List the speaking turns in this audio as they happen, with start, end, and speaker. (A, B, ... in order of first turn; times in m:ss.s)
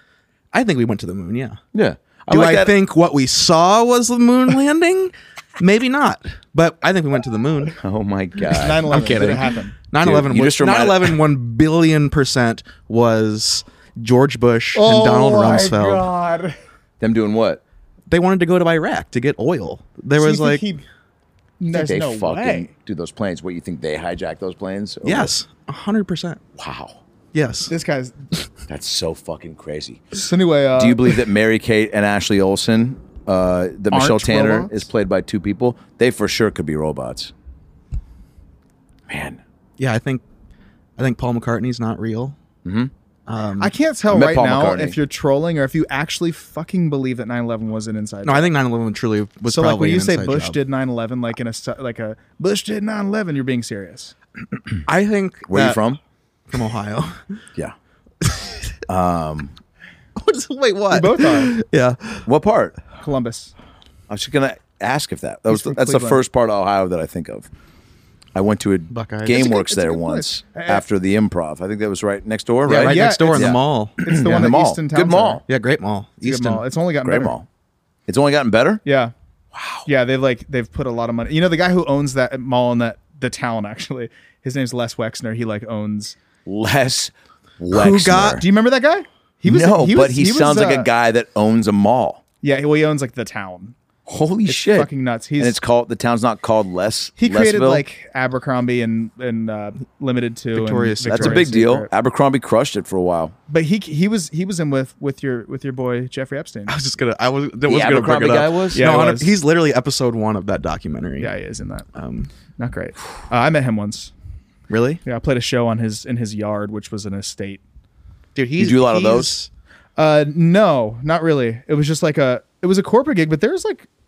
0:00.5-0:01.6 A
0:01.7-0:02.7 B
0:02.3-0:07.8 A
0:07.8-0:09.4 B
0:08.5-0:09.8 C
0:08.9-0:16.1 A
0:10.0-0:11.2 B
0:14.7-0:16.6 C
0:17.0-0:17.6 B
0:18.1-0:20.6 A
0:20.2-0:20.8 C
0:21.6-0:22.7 C
0:21.7-0:25.3 B
0:25.0-0:26.4 A
0:26.6-0:27.0 B
0:27.3-0:27.7 A
0:27.7-0:28.3 C
0:28.7-0:30.1 B
0:30.1-0:31.1 C
0:30.8-0:37.3 B
0:33.9-0:34.9 C
0:39.1-0:39.4 B
0:39.8-0:40.2 A
0:41.0-0:42.4 A
0:42.6-0:42.9 B
0:43.3-0:43.7 A
0:43.6-0:48.5 C
0:44.1-0:45.0 B
0:48.2-0:50.6 A
0:49.4-0:54.1 C
0:54.8-0:55.8 A
0:55.5-0:56.0 B
0:56.5-0:57.2 A
0:58.2-0:58.6 A
0:58.9-0:59.5 B
1:00.2-1:02.2 A
1:00.9-1:01.5 C
1:02.2-1:02.8 B
1:02.9-1:03.5 C
1:04.1-1:07.5 B
1:05.5-1:06.2 C
1:08.3-1:15.4 B
1:08.9-1:09.5 A
1:09.3-1:10.8 C
1:12.6-1:14.1 A
1:12.7-1:15.4 C
1:15.5-1:16.6 A
1:16.2-1:17.3 C
1:17.0-1:17.4 B
1:18.1-1:18.8 B
1:18.8-1:19.1 C
1:19.5-1:19.9 B
1:19.8-1:26.2 C
1:26.4-1:28.4 B
1:27.7-1:28.4 A
1:28.0-1:30.9 C
1:29.4-1:32.2 B
1:32.4-1:33.7 C
1:34.1-1:37.8 B
1:34.5-1:35.6 C
1:37.2-1:41.9 C
1:40.5-1:41.6 A
1:41.1-1:43.3 B
1:43.5-1:46.7 C
1:46.7-1:51.3 A
1:47.7-1:48.8 B
1:48.7-1:49.3 C
1:51.2-1:51.9 C
1:51.9-1:52.3 A
1:52.6-1:54.1 C
1:54.7-1:55.0 A
1:55.0-1:57.6 C
1:58.3-1:59.5 A
1:58.6-1:59.3 B
2:00.0-2:03.9 C